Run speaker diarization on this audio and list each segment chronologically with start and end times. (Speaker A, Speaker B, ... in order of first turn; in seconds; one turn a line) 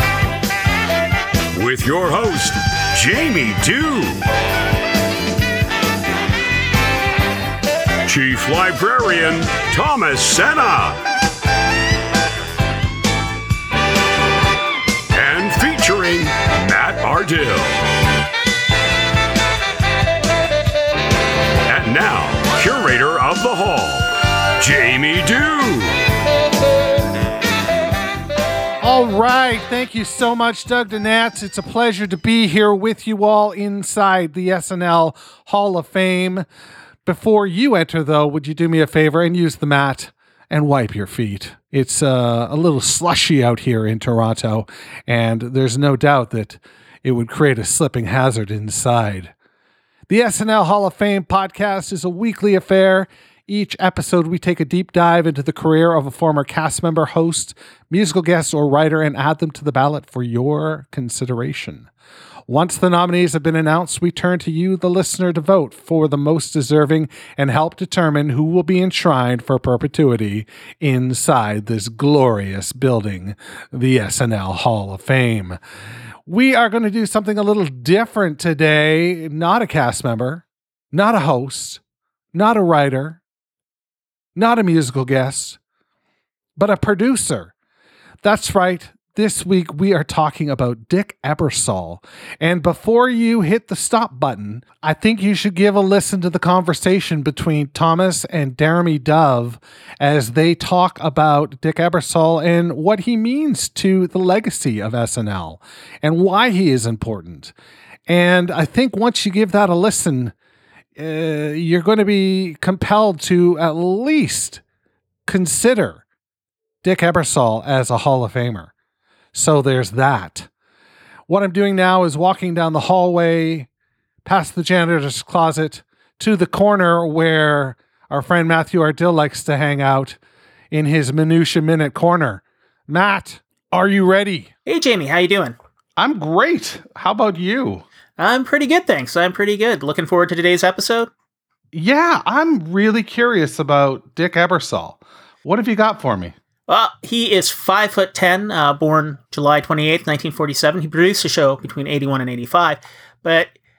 Speaker A: 1.5-4.2
Speaker A: 8.1-11.0
Speaker A: 15.1-17.8
Speaker A: 21.7-24.1
Speaker A: 24.6-26.0
Speaker B: 28.8-36.4
Speaker B: 37.0-49.3
Speaker B: 50.1-61.9
Speaker B: 62.5-75.6
Speaker B: 76.3-81.8
Speaker B: 82.3-83.2
Speaker B: 84.3-85.6
Speaker B: 86.6-87.5
Speaker B: 88.2-107.5
Speaker B: 108.1-110.3
Speaker B: 111.0-114.6
Speaker B: 115.2-116.0
Speaker B: 116.8-118.7
Speaker B: 119.3-120.5
Speaker B: 121.3-123.7
Speaker B: 124.2-130.2
Speaker B: 130.7-134.5
Speaker C: 134.7-135.6
Speaker B: 136.0-137.8
Speaker C: 138.2-141.1
Speaker B: 141.7-146.3
Speaker C: 146.7-153.5